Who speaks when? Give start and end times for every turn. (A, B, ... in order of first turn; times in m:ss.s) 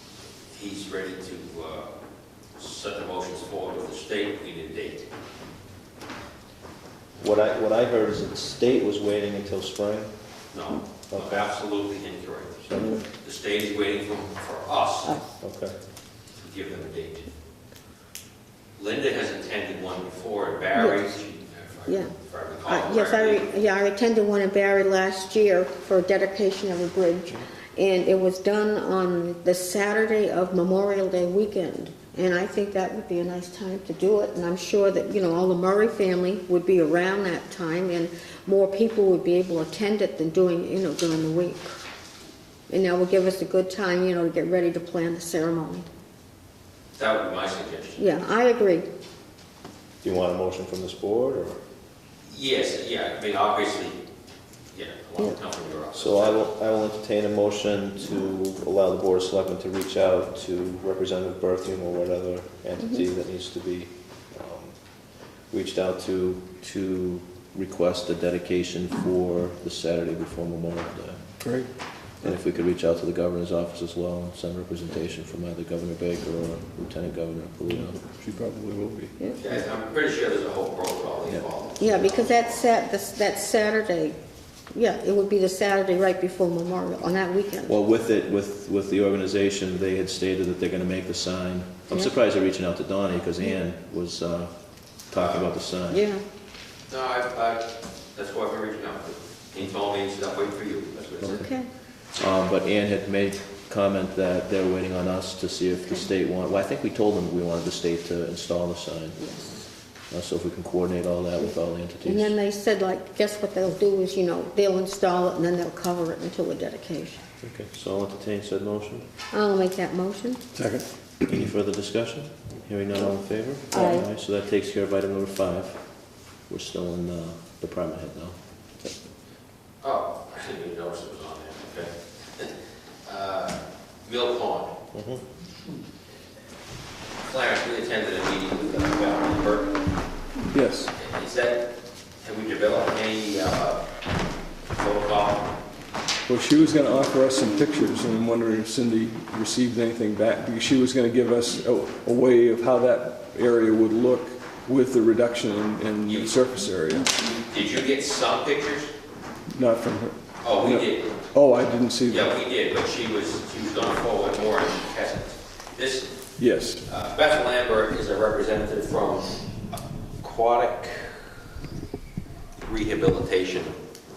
0:00.5-0:01.9 A
0:02.6-0:05.1 A
0:07.2-0:10.1 B
0:10.5-0:15.2 A
0:11.1-0:11.5 B
0:12.7-0:13.0 B
0:15.4-0:15.8 B
0:16.4-0:17.3 A
0:18.8-0:23.4 A
0:21.9-0:22.1 C
0:22.7-0:41.7 C
0:42.7-0:45.9 C
0:47.0-0:48.0 A
0:48.0-0:48.9 C
0:50.0-0:51.6 B
0:52.3-0:54.0 A
0:54.7-0:56.4 A
0:55.9-1:04.8 B
1:05.5-1:11.4 B
1:11.4-1:11.7 D
1:12.2-1:18.0 B
1:18.0-1:19.1 D
1:19.4-1:22.6 A
1:21.8-1:24.2 C
1:24.7-1:27.7 C
1:27.6-1:36.0 B
1:35.2-1:35.5 A
1:35.9-1:36.2 C
1:36.9-1:41.5 A
1:41.2-1:41.6 B
1:41.2-1:41.7 C
1:42.1-1:52.4 B
1:49.2-1:49.6 C
1:52.0-1:57.2 C
1:57.4-1:59.1 B
1:59.3-2:00.5 C
2:00.5-2:00.9 D
2:01.3-2:05.8 B
2:03.7-2:04.1 C
2:06.5-2:08.4 B
2:09.8-2:12.5 A
2:13.0-2:14.7 A
2:14.9-2:15.2 B
2:17.2-2:20.0 A
2:20.5-2:20.9 D
2:21.0-2:23.9 A
2:24.7-2:25.5 A
2:26.3-2:37.1 D
2:36.1-2:36.4 A
2:37.1-2:38.9 A
2:39.5-2:42.3 D
2:40.4-2:41.2 A
2:42.1-2:46.2 A
2:46.4-2:46.8 D
2:46.9-2:51.3 A
2:52.6-2:53.8 A